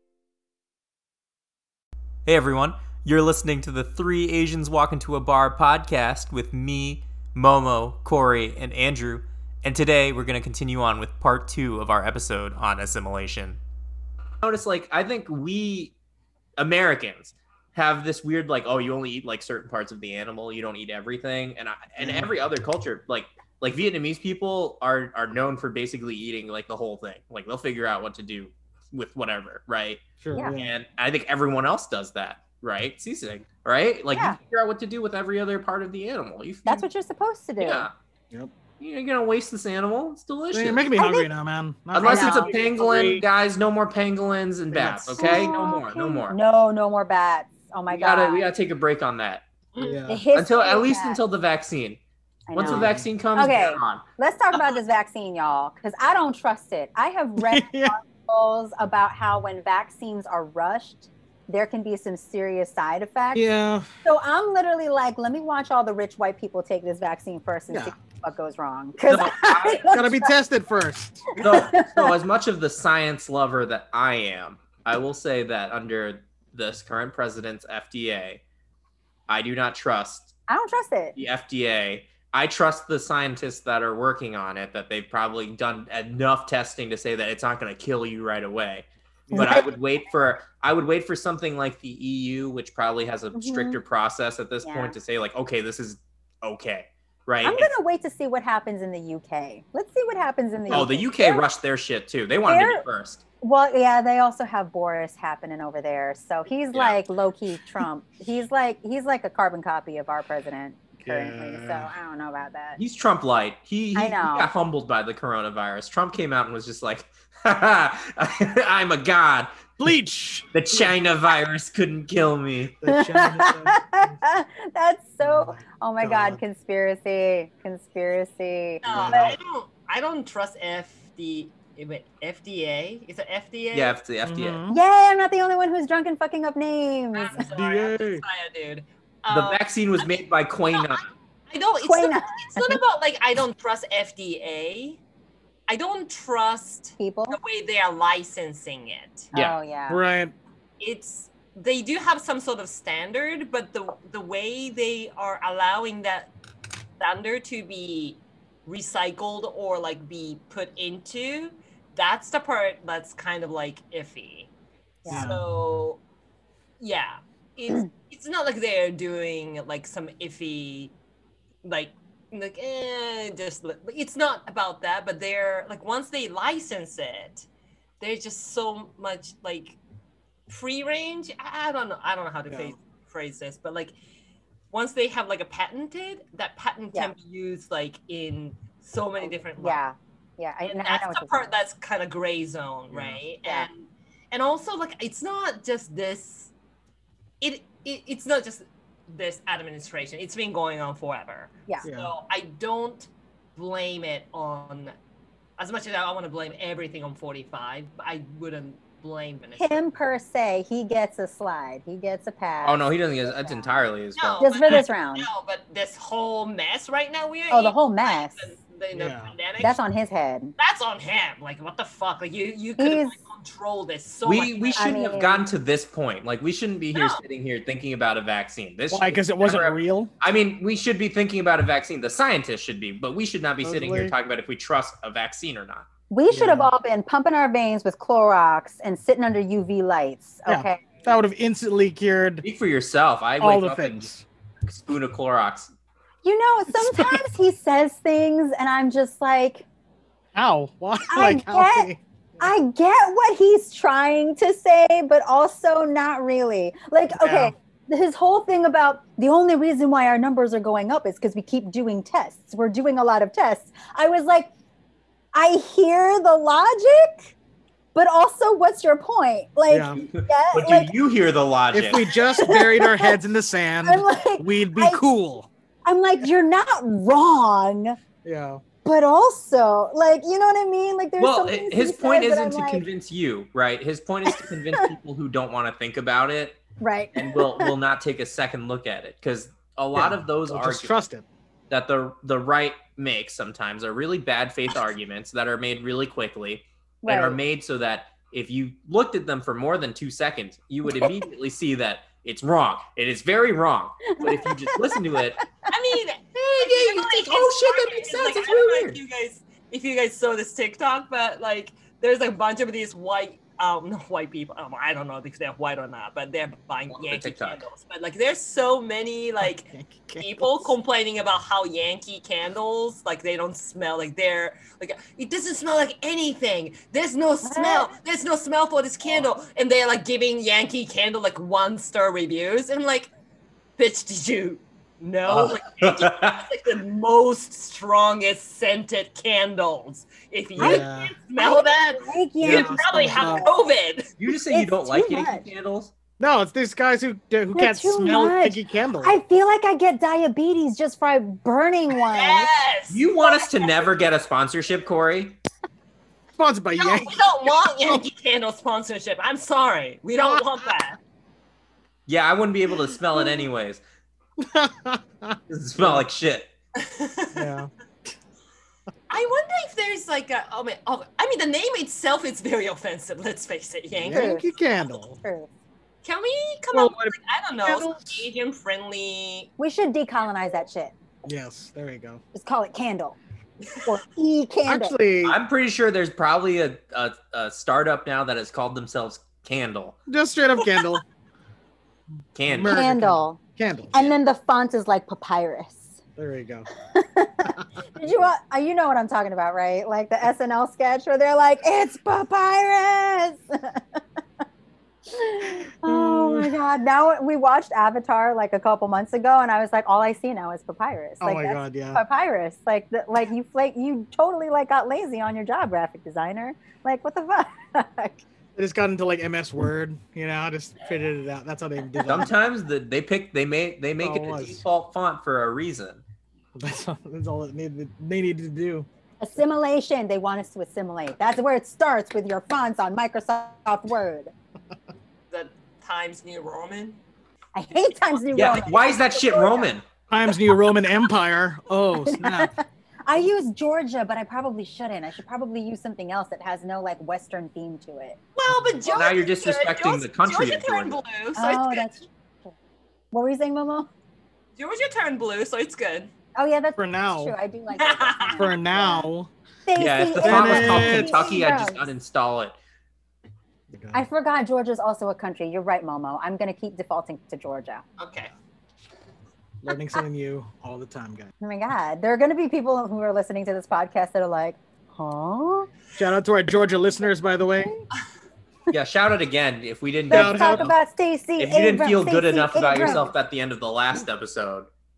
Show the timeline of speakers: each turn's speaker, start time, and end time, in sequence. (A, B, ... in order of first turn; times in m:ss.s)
0:02.2-0:13.6 A
0:14.4-0:15.9 A
0:16.6-0:30.0 A
0:22.0-0:22.3 B
0:30.2-0:30.8 B
0:30.5-0:36.8 A
0:34.1-0:34.4 C
0:36.6-0:37.9 C
0:37.6-0:37.9 A
0:38.8-0:40.9 A
0:40.5-0:43.2 B
0:41.0-0:41.3 C
0:41.9-0:46.4 A
0:42.0-0:42.6 C
0:44.7-0:45.5 B
0:45.2-0:48.4 C
0:47.9-0:49.4 A
0:49.7-0:50.0 D
0:49.8-0:50.2 B
0:50.1-0:51.2 C
0:50.3-0:52.0 A
0:52.5-1:03.5 C
0:52.5-0:54.0 A
0:52.7-0:53.0 B
0:57.5-0:57.9 B
1:03.3-1:03.9 B
1:04.0-1:10.3 C
1:09.0-1:10.0 A
1:09.9-1:11.3 B
1:11.4-1:12.1 C
1:11.4-1:18.4 A
1:19.3-1:20.3 A
1:20.5-1:21.2 C
1:21.2-1:37.7 A
1:29.3-1:29.7 B
1:29.3-1:29.6 C
1:33.3-1:33.8 C
1:34.6-1:34.9 C
1:37.4-1:41.4 C
1:40.7-1:43.2 A
1:42.5-1:42.8 C
1:43.4-1:52.8 C
1:46.7-1:47.0 A
1:51.0-1:51.9 B
1:52.8-1:59.6 A
1:53.9-1:54.5 C
1:59.8-2:00.9 B
2:00.5-2:02.8 A
2:02.8-2:04.1 B
2:02.9-2:09.4 C
2:05.2-2:06.4 B
2:08.8-2:14.0 D
2:08.8-2:09.4 B
2:13.7-2:14.6 A
2:14.2-2:14.8 B
2:14.7-2:17.4 C
2:17.1-2:21.0 D
2:17.5-2:18.2 B
2:19.3-2:21.0 A
2:21.5-2:25.0 D
2:21.8-2:22.8 C
2:25.7-2:29.3 D
2:27.0-2:27.4 C
2:29.3-2:30.0 C
2:29.9-2:30.3 B
2:30.8-2:36.3 D
2:37.0-2:44.5 D
2:45.0-2:46.0 D
2:45.0-2:45.4 C
2:45.1-2:45.4 B
2:46.8-2:50.9 D
2:51.6-2:57.4 D
2:58.0-2:59.8 D
3:00.5-3:03.9 D
3:02.5-3:02.8 B
3:04.7-3:09.8 D
3:09.6-3:11.5 C
3:10.7-3:16.5 D
3:12.9-3:13.2 B
3:17.4-3:24.9 D
3:21.8-3:22.1 B
3:25.6-3:29.8 D
3:29.6-3:33.8 C
3:32.6-3:34.5 A
3:34.2-3:39.8 D
3:34.4-3:35.3 C
3:37.5-3:38.5 C
3:38.9-3:39.3 B
3:39.6-3:40.5 C
3:40.6-3:44.9 D
3:42.8-3:43.2 C
3:44.2-3:55.9 A
3:44.8-3:45.4 C
3:46.9-3:47.2 D
3:48.9-3:50.1 B
3:53.6-3:54.2 B
3:56.1-4:01.0 C
3:56.3-3:56.7 B
4:00.4-4:02.4 B
4:02.4-4:04.1 A
4:03.4-4:04.2 B
4:04.6-4:05.7 A
4:06.2-4:09.6 C
4:10.3-4:12.0 B
4:11.1-4:24.5 C
4:17.2-4:17.5 B
4:25.3-4:27.3 C
4:27.9-4:30.9 C
4:29.7-4:30.0 B
4:30.0-4:32.0 A
4:31.7-4:35.5 B
4:32.1-4:33.1 C
4:33.9-4:35.0 C
4:35.9-4:38.0 C
4:38.2-4:38.6 B
4:38.8-4:42.8 C
4:41.2-4:46.6 A
4:44.3-4:44.8 C
4:46.8-4:47.8 C
4:47.1-4:51.0 A
4:49.9-4:51.2 B
4:51.7-5:05.4 A
4:57.0-4:57.4 C
5:04.2-5:05.4 C
5:05.7-5:33.1 D
5:06.6-5:09.0 A
5:16.9-5:17.6 A
5:19.4-5:20.7 B
5:27.4-5:27.9 C
5:33.8-5:44.1 D
5:35.3-5:36.4 A
5:40.6-5:41.1 B
5:40.6-5:40.8 C
5:41.4-5:43.7 C
5:42.4-5:42.8 A
5:42.5-5:43.5 B
5:44.2-5:45.9 A
5:44.5-5:45.5 C
5:46.2-5:49.2 B
5:47.5-5:52.5 C
5:52.0-5:53.7 D
5:52.9-5:55.4 A
5:56.3-5:57.2 B
5:56.8-6:01.0 D
6:02.1-6:03.8 A
6:04.4-6:06.0 B
6:05.5-6:06.5 A
6:06.8-6:07.5 D
6:07.3-6:07.7 B
6:09.1-6:14.4 D
6:14.0-6:15.2 B
6:14.1-6:15.5 C
6:16.0-6:19.5 D
6:16.7-6:18.2 B
6:19.6-6:20.9 C
6:21.2-6:22.2 B
6:22.3-6:23.2 C
6:23.8-6:25.0 C
6:24.7-6:25.4 B
6:25.2-6:30.0 A
6:30.1-6:31.0 B
6:32.3-6:32.8 A
6:32.4-6:33.9 B
6:32.6-6:33.4 C
6:33.9-6:35.9 C
6:36.2-6:36.7 B
6:36.9-6:44.0 C
6:45.1-6:58.2 C
6:45.8-6:46.5 B
6:51.2-6:52.0 B
6:58.6-7:02.3 B
7:02.0-7:06.0 A
7:04.0-7:04.6 B
7:06.6-7:08.9 B
7:09.2-7:14.3 C
7:15.3-7:17.0 D
7:17.6-7:19.7 C
7:18.3-7:19.8 A
7:20.1-7:22.5 B
7:22.0-7:28.2 C
7:28.4-7:31.9 D
7:28.5-7:28.8 B
7:28.9-7:31.0 A
7:31.3-7:32.5 C
7:33.1-7:33.9 C
7:34.6-7:36.1 D
7:36.3-7:39.1 C
7:36.8-7:37.3 B
7:37.7-7:38.5 D
7:38.4-7:39.3 B
7:39.6-7:41.8 C
7:39.8-7:42.6 A
7:40.2-7:41.3 B
7:43.7-7:44.0 B
7:43.9-7:47.8 C
7:48.0-7:48.3 D
7:49.6-7:51.3 B
7:51.4-7:55.7 C
7:56.0-7:57.8 B
7:58.7-8:00.8 A
8:00.1-8:03.1 C
8:00.1-8:00.7 B
8:01.4-8:04.7 A